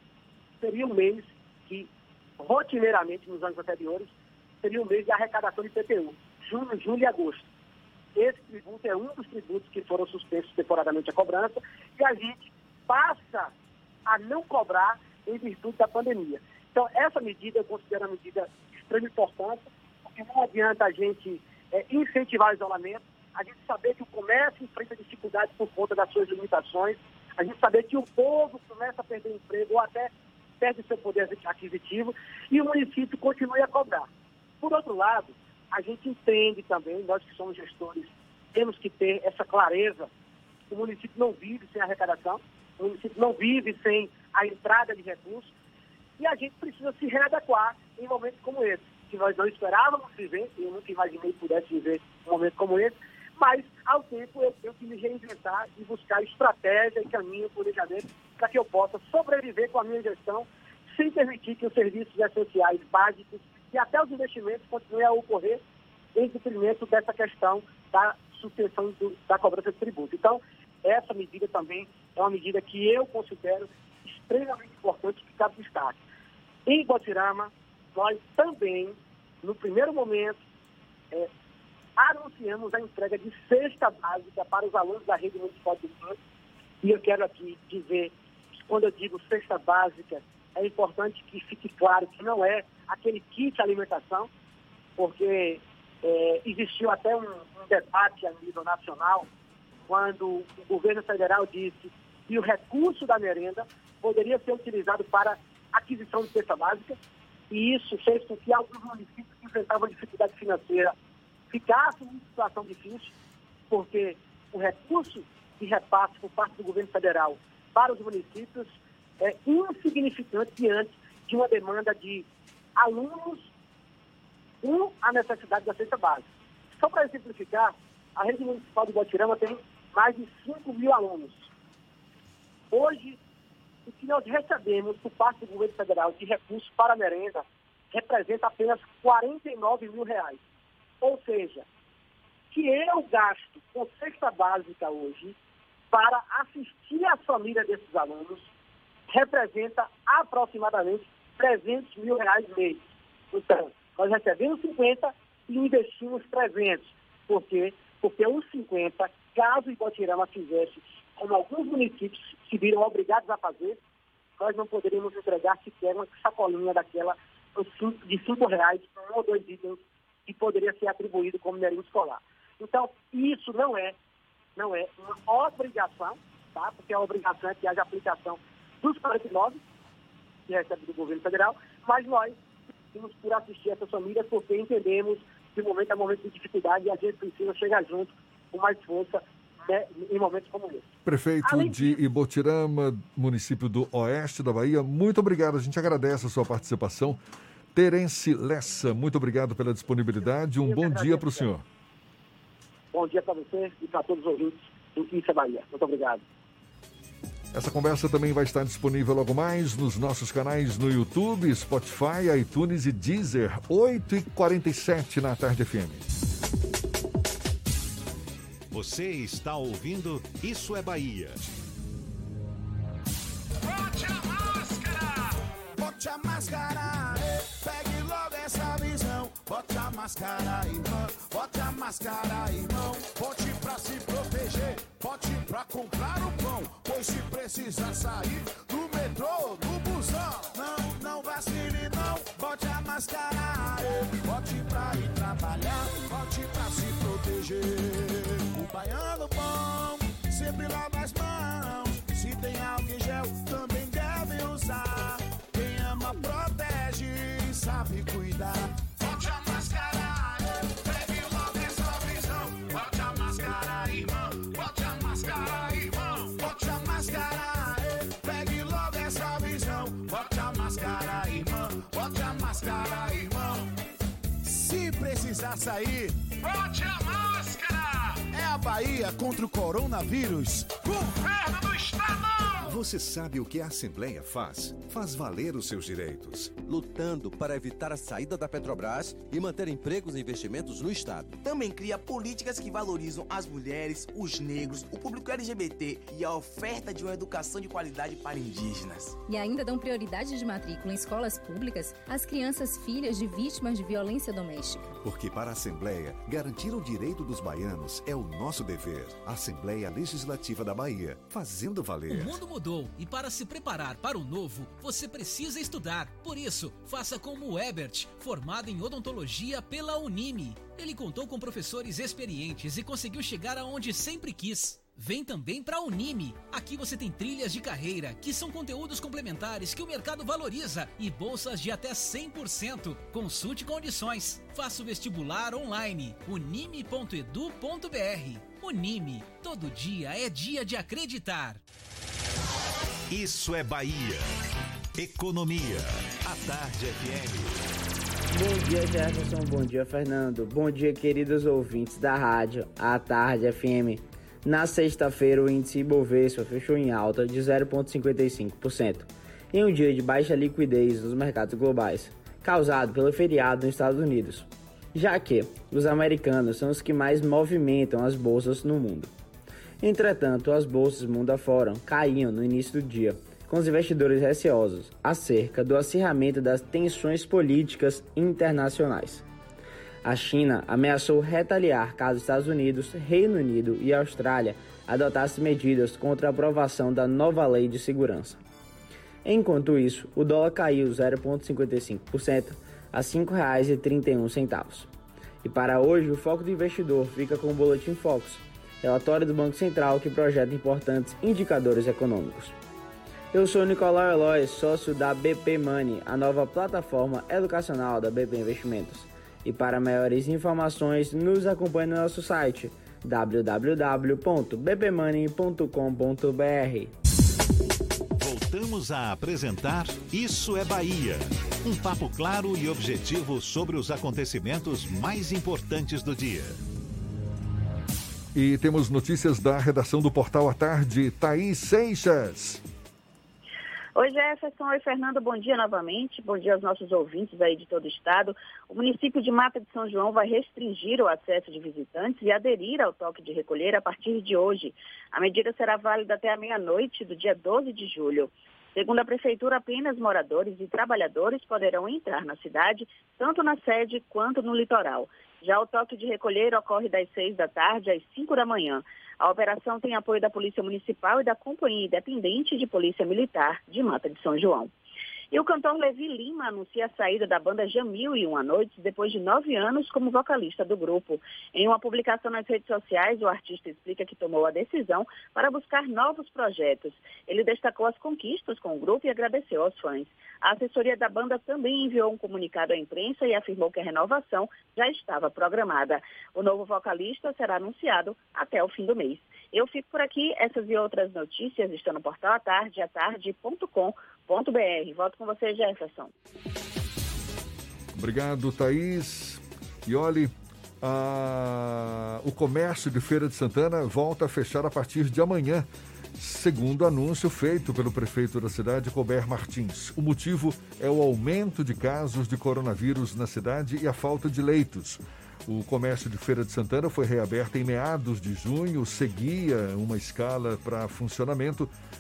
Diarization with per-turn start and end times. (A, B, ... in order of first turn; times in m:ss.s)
0:00.6-0:01.9 A
0:02.4-0:04.1 A
0:04.6-0:07.4 A
0:08.2-0:13.5 A
0:14.1-0:34.1 A
0:34.6-0:40.1 A
0:40.7-0:45.5 A
0:46.2-1:05.6 A
1:06.2-1:16.0 A
1:16.7-1:20.4 A
1:22.0-1:26.2 A
1:26.8-1:28.1 A
1:28.7-1:34.3 A
1:35.0-1:39.3 A
1:39.9-1:47.0 A
1:47.5-1:50.9 A
1:51.5-1:53.1 A
1:53.7-2:02.3 A
2:02.8-2:03.5 A
2:04.6-2:11.5 A
2:12.7-2:13.2 A
2:13.9-2:20.4 A
2:21.0-2:21.6 A
2:22.5-2:25.4 A
2:25.9-2:28.5 A
2:29.1-2:43.8 A
2:44.4-2:54.0 A
2:54.6-2:59.6 A
3:00.5-3:02.4 A
3:02.9-3:10.9 A
3:11.1-3:17.2 B
3:11.4-3:12.0 A
3:17.7-3:21.6 B
3:20.6-3:21.5 A
3:22.9-3:26.2 A
3:27.5-3:36.0 B
3:38.7-3:41.5 C
3:43.7-3:45.2 D
3:45.8-4:33.7 D
4:34.4-4:42.6 D
4:42.6-4:46.5 E
4:46.7-4:51.3 F
4:51.4-4:59.2 G
4:59.3-5:04.8 H
5:05.0-5:12.4 E
5:12.1-5:41.6 I
5:43.1-5:44.3 C
5:45.0-5:47.6 C
5:48.3-6:09.1 J
6:09.8-6:19.2 J
6:20.0-6:28.4 J
6:29.2-6:34.9 J
6:35.4-6:42.5 J
6:43.3-6:56.9 J
6:58.2-7:06.6 C
7:08.4-7:12.6 B
7:14.0-7:44.7 K
7:45.3-8:16.1 K
8:18.0-8:25.7 B
8:26.2-8:41.7 B